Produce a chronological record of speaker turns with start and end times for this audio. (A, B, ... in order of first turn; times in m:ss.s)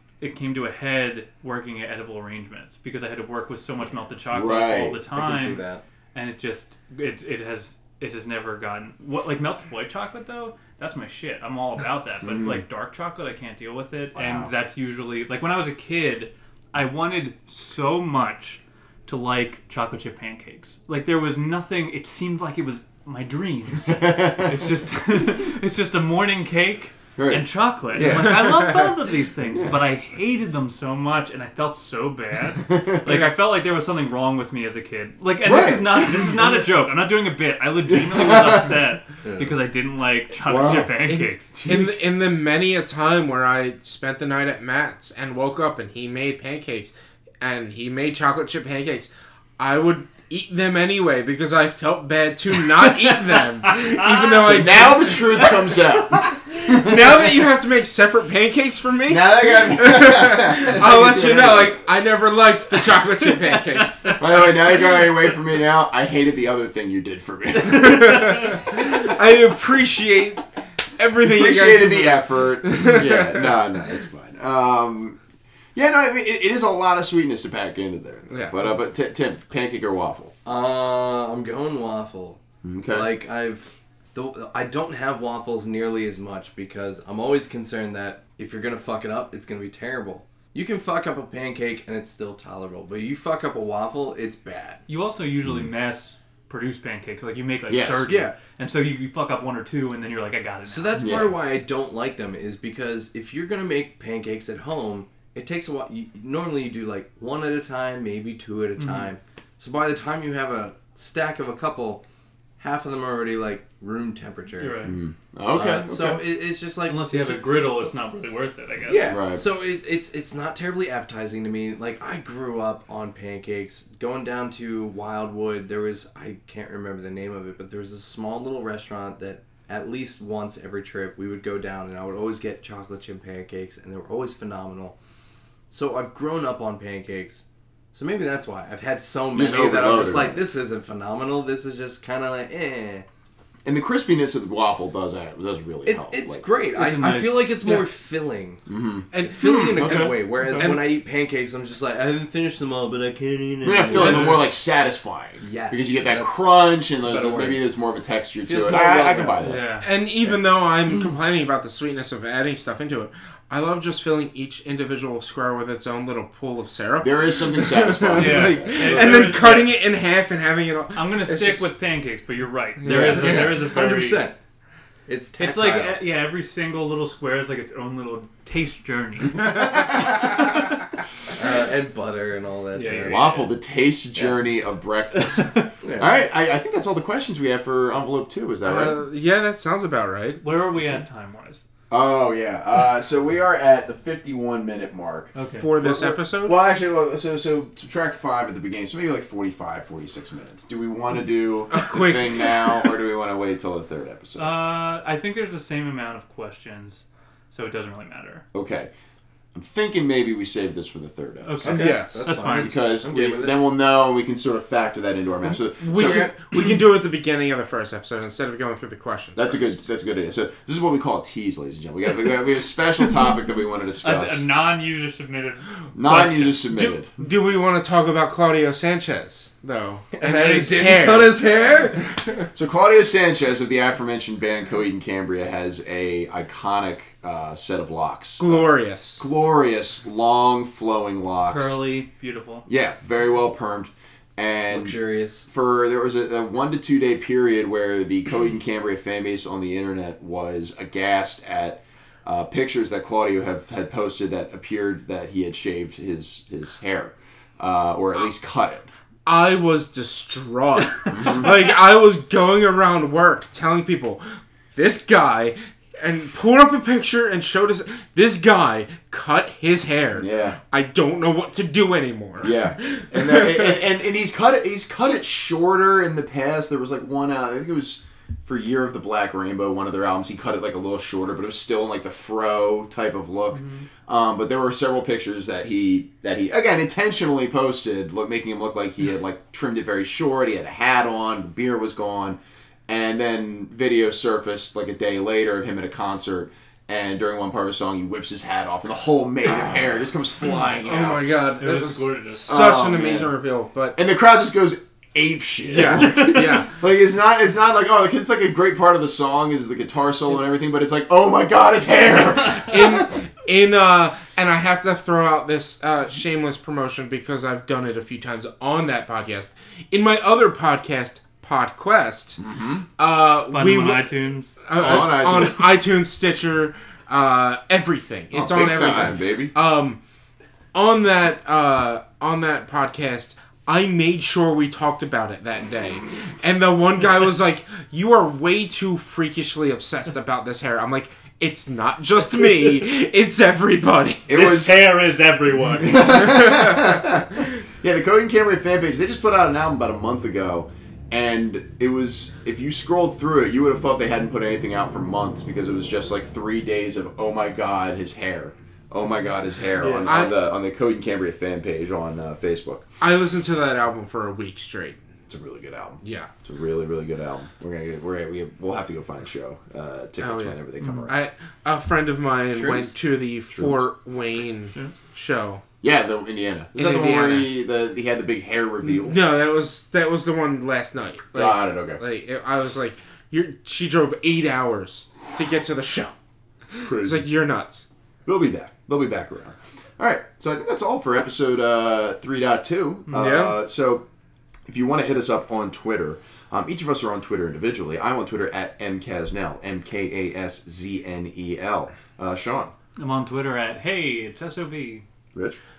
0:00.2-0:05.6 A
0:04.3-0:05.0 B
0:05.1-0:05.8 C
0:06.1-0:41.5 A
0:12.2-0:12.6 B
0:14.1-0:14.5 B
0:23.9-0:24.5 B
0:27.2-0:29.0 B
0:32.7-0:33.0 B
0:35.4-0:36.5 B
0:37.9-0:38.6 B
0:39.2-0:39.5 C
0:40.4-0:40.9 B
0:41.1-0:55.5 D
0:41.5-0:42.0 B
0:53.0-0:54.6 A
0:54.3-0:57.3 B
0:56.5-1:04.4 D
0:59.1-1:01.8 B
1:03.1-1:04.1 A
1:04.2-1:09.0 B
1:07.7-1:10.4 D
1:11.0-1:13.6 D
1:11.2-1:15.2 B
1:15.7-1:20.3 B
1:18.3-1:18.6 D
1:20.4-1:34.8 C
1:22.6-1:23.1 B
1:34.9-1:41.0 A
1:37.7-1:38.1 B
1:38.1-1:38.3 C
1:40.6-1:52.0 C
1:41.0-1:41.3 B
1:48.8-1:49.1 A
1:52.6-1:54.8 C
1:54.6-1:55.0 A
1:54.8-1:56.2 B
1:55.5-1:57.6 C
1:56.9-1:59.1 A
1:58.8-2:14.9 C
1:59.1-1:59.4 B
2:15.7-2:23.0 C
2:19.3-2:20.4 B
2:23.6-2:26.4 B
2:25.8-2:28.6 C
2:26.7-2:27.5 A
2:28.7-2:30.2 B
2:29.1-2:30.8 D
2:29.2-2:34.4 C
2:33.6-2:39.7 B
2:34.0-2:34.4 A
2:35.4-2:37.6 C
2:38.5-2:39.4 C
2:39.4-2:39.8 A
2:39.8-2:51.7 D
2:47.0-2:49.3 B
2:48.1-2:49.7 A
2:50.9-2:54.3 A
2:52.8-2:53.4 D
2:52.9-2:54.4 C
2:52.9-2:53.4 B
2:55.1-2:56.0 C
2:55.4-3:00.6 A
2:59.4-3:00.3 B
3:01.4-3:03.3 C
3:02.7-3:03.5 A
3:03.0-3:09.0 B
3:05.1-3:05.7 A
3:05.8-3:06.2 C
3:08.6-3:10.4 D
3:10.4-3:11.6 A
3:11.9-3:24.5 B
3:15.3-3:15.7 A
3:15.6-3:16.6 D
3:21.7-3:22.9 D
3:24.4-3:28.4 A
3:28.5-3:28.9 B
3:29.5-3:36.5 B
3:31.4-3:32.7 A
3:31.6-3:33.6 C
3:31.7-3:32.3 D
3:35.4-3:39.8 D
3:39.4-3:44.4 B
3:44.0-3:46.5 A
3:45.9-3:47.1 B
3:46.1-3:51.4 D
3:50.1-3:52.0 C
3:52.5-4:01.8 B
3:58.4-3:59.2 D
4:01.5-4:02.7 A
4:02.7-4:18.9 B
4:04.7-4:05.4 C
4:19.2-4:24.2 D
4:21.1-4:21.5 B
4:24.7-4:33.8 D
4:30.2-4:30.6 B
4:32.4-5:01.3 B
4:43.5-4:43.8 A
5:00.8-5:04.0 D
5:01.6-5:02.5 A
5:02.4-5:03.3 B
5:03.9-5:13.1 B
5:05.6-5:06.7 D
5:06.0-5:06.3 A
5:12.5-5:22.4 D
5:22.4-5:22.8 B
5:23.0-5:30.0 D
5:23.5-5:24.8 A
5:24.7-5:25.7 B
5:28.3-5:29.5 B
5:30.7-5:44.3 D
5:44.3-5:44.8 B
5:44.3-5:46.4 A
5:45.8-6:02.8 B
5:59.8-6:00.1 A
6:00.0-6:00.4 D
6:03.0-6:05.0 D
6:05.3-6:11.2 B
6:06.0-6:06.3 D
6:10.2-6:15.6 D
6:10.8-6:11.1 A
6:12.5-6:12.9 C
6:13.5-6:13.8 B
6:15.8-6:19.2 B
6:16.8-6:17.5 D
6:19.0-6:26.1 D
6:21.3-6:22.0 B
6:26.7-6:27.2 B
6:26.8-6:27.8 D
6:28.2-6:34.0 B
6:33.1-6:33.5 D
6:34.7-6:42.7 B
6:43.0-6:45.0 A